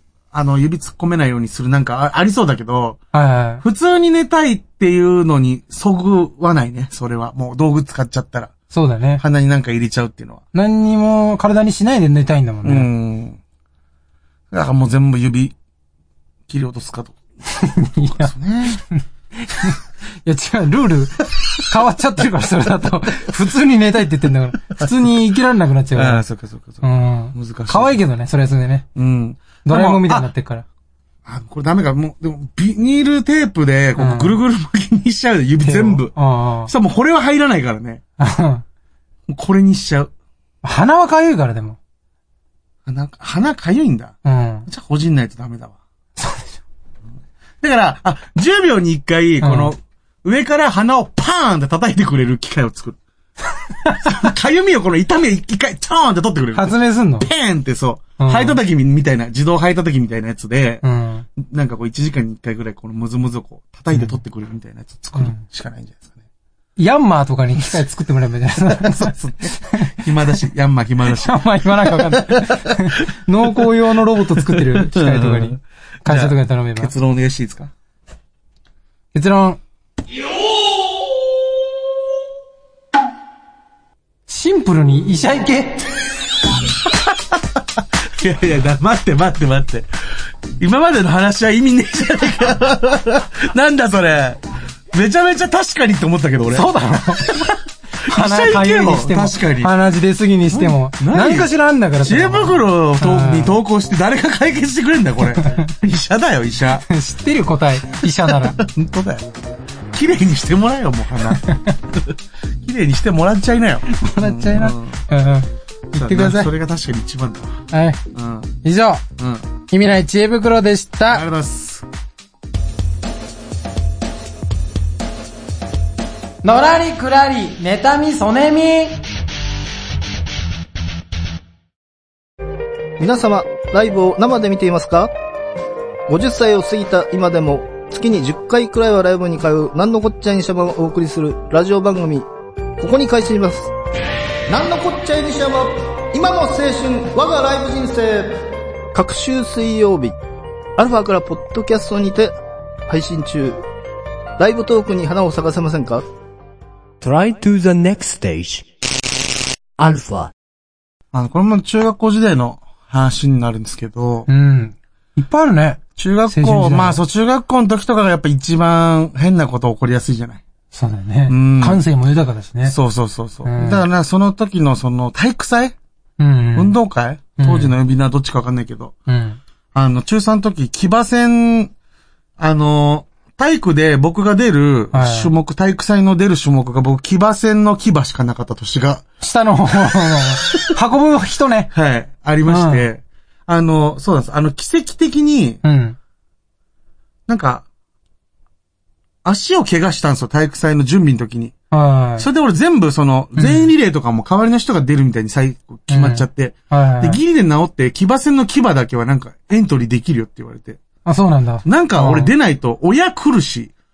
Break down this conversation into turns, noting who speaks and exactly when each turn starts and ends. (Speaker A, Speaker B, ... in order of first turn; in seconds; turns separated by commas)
Speaker A: 0.3-3.0, Speaker B: 3.1-3.6, Speaker A: 3.6-8.5, Speaker B: 8.7-9.2, Speaker A: 9.2-10.4, Speaker B: 10.5-12.9, Speaker A: 12.6-13.4, Speaker A: 14.5-15.5, Speaker A: 16.5-17.2, Speaker B: 17.5-26.2, Speaker A: 18.1-18.8, Speaker A: 25.9-28.0, Speaker B: 26.8-28.9, Speaker A: 28.9-30.3, Speaker B: 29.6-30.6, Speaker A: 31.2-36.1, Speaker B: 34.0-34.3, Speaker B: 35.6-36.7, Speaker A: 36.7-38.0, Speaker B: 38.2-38.6, Speaker A: 39.3-40.1, Speaker B: 40.6-41.8, Speaker A: 42.9-44.1, Speaker B: 44.2-44.7, Speaker A: 44.7-45.8, Speaker B: 46.2-46.6, Speaker A: 47.6-53.0, Speaker B: 49.4-49.7, Speaker A: 54.0-60.8, Speaker B: 56.5-57.3, Speaker B: 58.2-58.6, Speaker B: 60.8-61.2, Speaker A: 61.4-66.2, Speaker B: 65.1-65.4, Speaker B: 66.8-69.9, Speaker A: 68.7-73.0, Speaker B: 71.2-76.9, Speaker A: 74.4-77.7, Speaker B: 79.1-79.6, Speaker B: 84.3-85.9, Speaker A: 88.2-89.9, Speaker A: 90.6-94.4, Speaker A: 94.9-96.7, Speaker B: 96.5-97.5, Speaker B: 98.0-103.6, Speaker A: 98.1-99.7, Speaker A: 100.5-101.5, Speaker A: 102.0-106.8, Speaker B: 106.9-108.6, Speaker A: 108.2-109.3, Speaker A: 109.9-115.0, Speaker B: 111.5-111.7, Speaker B: 113.9-116.5, Speaker A: 115.9-117.6, Speaker B: 117.7-118.0, Speaker A: 118.1-118.6, Speaker B: 118.6-119.0, Speaker A: 119.2-119.4, Speaker B: 119.7-121.2, Speaker A: 121.1-121.8, Speaker B: 126.4-129.0, Speaker C: 133.0-135.1, Speaker C: 136.1-142.3, Speaker C: 142.8-143.7, Speaker C: 144.5-148.4, Speaker C: 148.9-150.1, Speaker C: 150.8-152.3, Speaker C: 152.9-153.6, Speaker C: 154.4-156.1, Speaker D: 157.0-158.7, Speaker D: 159.8-160.3, Speaker A: 161.1-164.3, Speaker B: 164.3-167.0, Speaker A: 166.0-170.4, Speaker B: 170.7-172.8, Speaker A: 171.3-171.8, Speaker A: 172.6-175.8, Speaker B: 173.4-173.8, Speaker B: 176.2-176.8, Speaker A: 176.5-178.9, Speaker B: 177.4-177.7, Speaker B: 179.1-179.4, Speaker A: 179.7-181.7, Speaker A: 182.4-189.0, Speaker B: 184.9-185.3, Speaker B: 189.2-191.7, Speaker A: 191.7-195.6, Speaker B: 192.4-192.8, Speaker B: 195.6-195.9, Speaker A: 197.3-197.7, Speaker A: 199.2-201.5, Speaker B: 201.7-202.3, Speaker A: 202.2-210.8, Speaker B: 203.3-203.7, Speaker B: 205.9-207.2, Speaker B: 211.1-212.3, Speaker A: 211.6-213.7